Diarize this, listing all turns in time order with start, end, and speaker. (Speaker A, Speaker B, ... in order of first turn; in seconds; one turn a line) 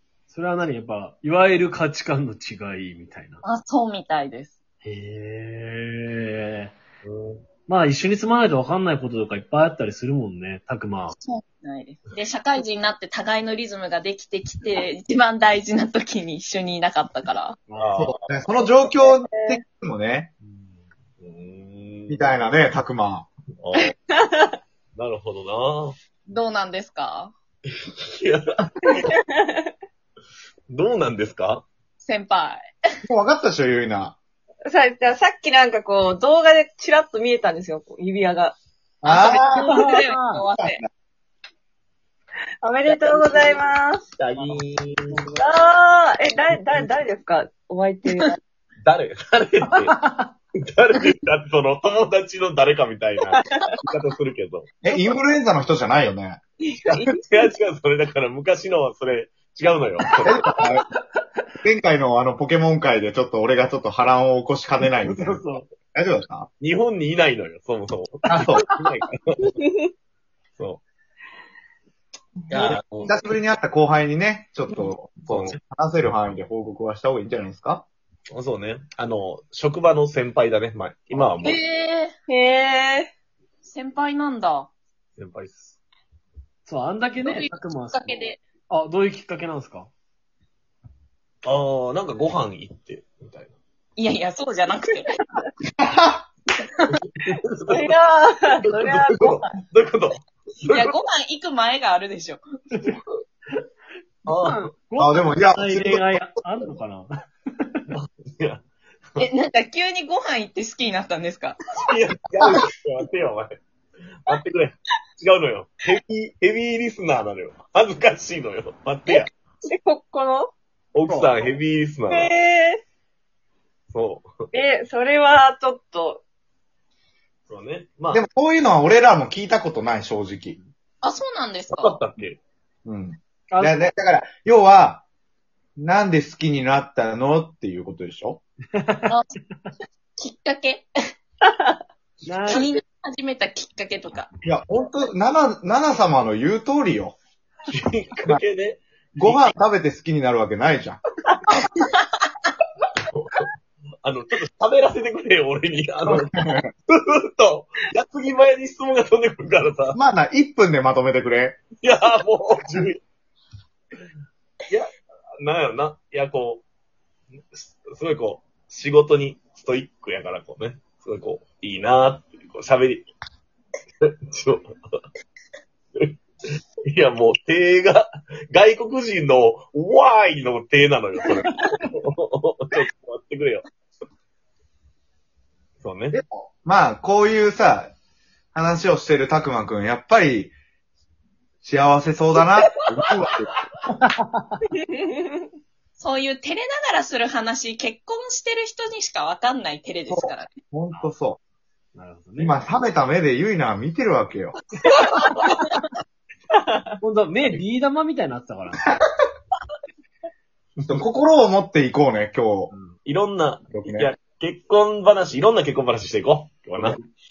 Speaker A: 0.3-3.4
Speaker B: 3.4-4.6
Speaker A: 4.8-6.8
Speaker C: 7.0-7.5
Speaker A: 7.7-11.2
Speaker B: 11.2-17.6
Speaker A: 17.7-18.0
Speaker C: 17.8-18.3
Speaker D: 17.9-20.3
Speaker E: 18.7-19.6
Speaker A: 20.4-20.9
Speaker C: 21.2-22.4
Speaker D: 22.1-23.3
Speaker C: 23.6-23.9
Speaker E: 24.1-24.6
Speaker C: 25.0-26.0
Speaker B: 26.3-27.3
Speaker C: 27.7-29.1
Speaker E: 28.8-29.7
Speaker C: 30.7-31.7
Speaker B: 32.0-32.7
Speaker D: 33.1-34.2
Speaker E: 34.7-38.6
Speaker D: 39.0-39.8
Speaker B: 39.0-40.8
Speaker A: 39.7-40.4
Speaker D: 40.6-40.8
Speaker E: 42.6-44.1
Speaker C: 42.9-43.6
Speaker C: 44.2-45.2
Speaker A: 45.1-45.4
Speaker E: 45.4-48.4
Speaker C: 48.8-50.0
Speaker A: 49.9-50.3
Speaker C: 50.6-54.7
Speaker E: 53.3-53.6
Speaker D: 54.8-56.4
Speaker E: 56.9-57.2
Speaker C: 56.9-60.4
Speaker D: 60.2-60.8
Speaker D: 61.6-65.4
Speaker A: 65.0-65.7
Speaker D: 65.9-66.5
Speaker C: 66.6-69.5
Speaker D: 68.3-68.7
Speaker A: 68.4-68.7
Speaker E: 69.6-69.8
Speaker C: 72.5-73.3
Speaker D: 72.7-77.9
Speaker C: 75.3-75.6
Speaker C: 78.3-81.6
Speaker B: 81.4-82.1
Speaker E: 82.3-83.1
Speaker B: 83.6-84.7
Speaker C: 85.2-85.8
Speaker A: 86.7-89.9
Speaker B: 87.2-88.4
Speaker C: 91.4-93.6
Speaker B: 94.0-95.2
Speaker D: 95.8-96.2
Speaker C: 97.2-97.9
Speaker E: 97.7-99.5
Speaker C: 98.6-101.0
Speaker B: 100.6-102.4
Speaker C: 104.3-104.7
Speaker A: 104.4-107.1
Speaker D: 105.0-106.3
Speaker C: 107.9-108.6
Speaker B: 109.2-111.6
Speaker C: 111.8-113.6
Speaker C: 114.2-119.3
Speaker E: 119.1-120.5
Speaker C: 120.9-122.3
Speaker E: 122.1-122.8
Speaker C: 123.9-124.3
Speaker E: 124.5-126.2
Speaker C: 127.5-128.2
Speaker D: 128.1-130.6
Speaker B: 131.0-132.0
Speaker C: 131.7-132.4
Speaker D: 132.9-135.0
Speaker A: 133.5-133.9
Speaker D: 135.8-138.4
Speaker A: 138.8-139.1
Speaker B: 139.1-139.3
Speaker B: 140.2-140.9
Speaker A: 142.2-142.7
Speaker B: 142.5-144.3
Speaker D: 144.4-147.2
Speaker C: 147.7-149.6
Speaker D: 149.2-151.0
Speaker C: 153.1-153.5
Speaker C: 154.0-160.0
Speaker D: 156.1-156.7
Speaker D: 159.9-161.6
Speaker C: 161.8-163.0
Speaker C: 164.7-166.7
Speaker C: 167.5-173.1
Speaker C: 174.0-175.0
Speaker C: 176.9-183.7
Speaker C: 185.8-186.2
Speaker D: 186.1-187.9
Speaker D: 188.6-190.5
Speaker D: 191.6-193.7
Speaker A: 194.0-194.6
Speaker E: 194.8-195.4
Speaker B: 196.0-200.5
Speaker D: 200.1-201.4
Speaker A: 201.9-202.8
Speaker D: 202.4-204.6
Speaker E: 206.6-206.9
Speaker A: 207.0-208.9
Speaker C: 210.8-211.0
Speaker D: 210.9-212.7
Speaker A: 212.7-213.0
Speaker C: 213.1-217.0
Speaker D: 213.7-214.1